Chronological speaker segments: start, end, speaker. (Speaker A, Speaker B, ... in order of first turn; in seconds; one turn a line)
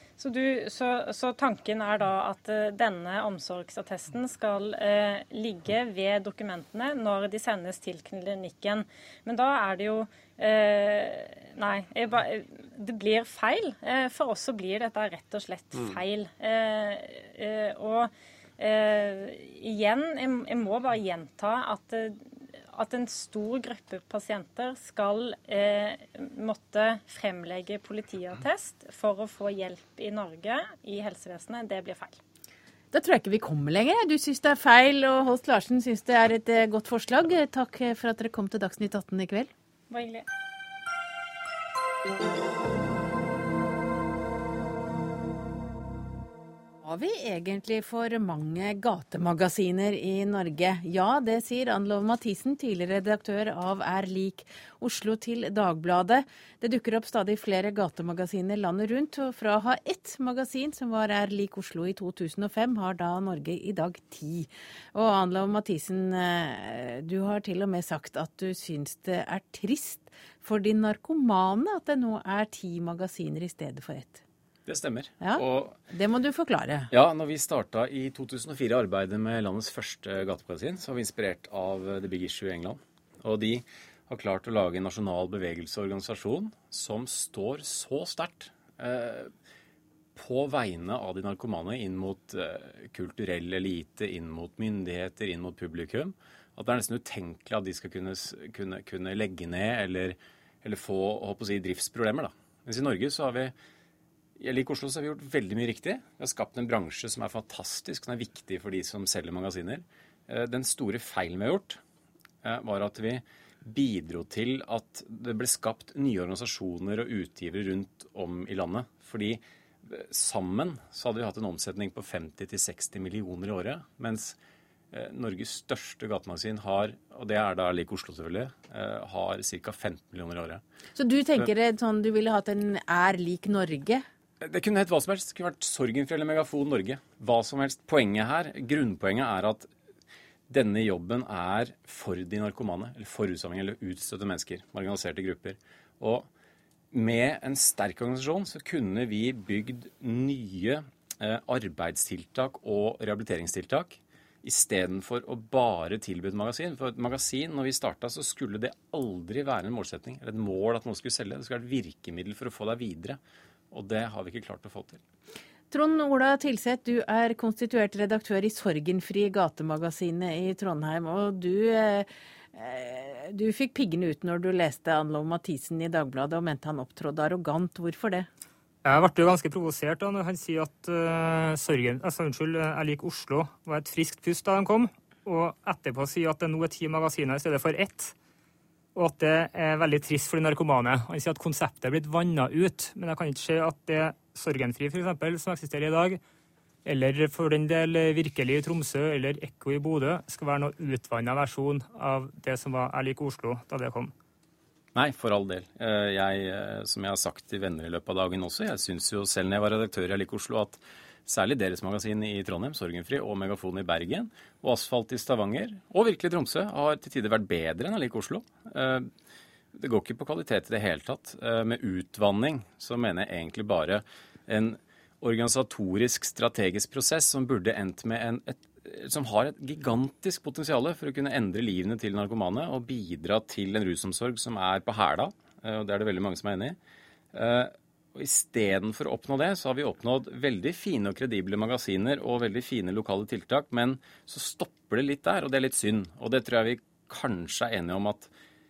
Speaker A: 0.2-22.1
Speaker A: 22.7-32.2
Speaker B: 32.9-39.5
Speaker A: 39.9-40.2
Speaker B: 46.8-74.2
Speaker C: 74.7-75.8
Speaker B: 75.2-76.9
Speaker C: 76.9-89.3
Speaker C: 90.2-103.5
Speaker C: 104.4-111.8
Speaker C: 112.4-124.3
Speaker C: 124.9-130.6
Speaker B: 130.9-134.0
Speaker C: 134.4-139.7
Speaker C: 140.5-146.3
Speaker C: 146.9-163.2
Speaker C: 163.7-165.0
Speaker B: 165.7-178.3
Speaker D: 178.8-188.1
Speaker D: 188.9-196.2
Speaker D: 196.8-204.1
Speaker C: 204.9-219.1
Speaker C: 219.7-236.8
Speaker C: 237.3-248.3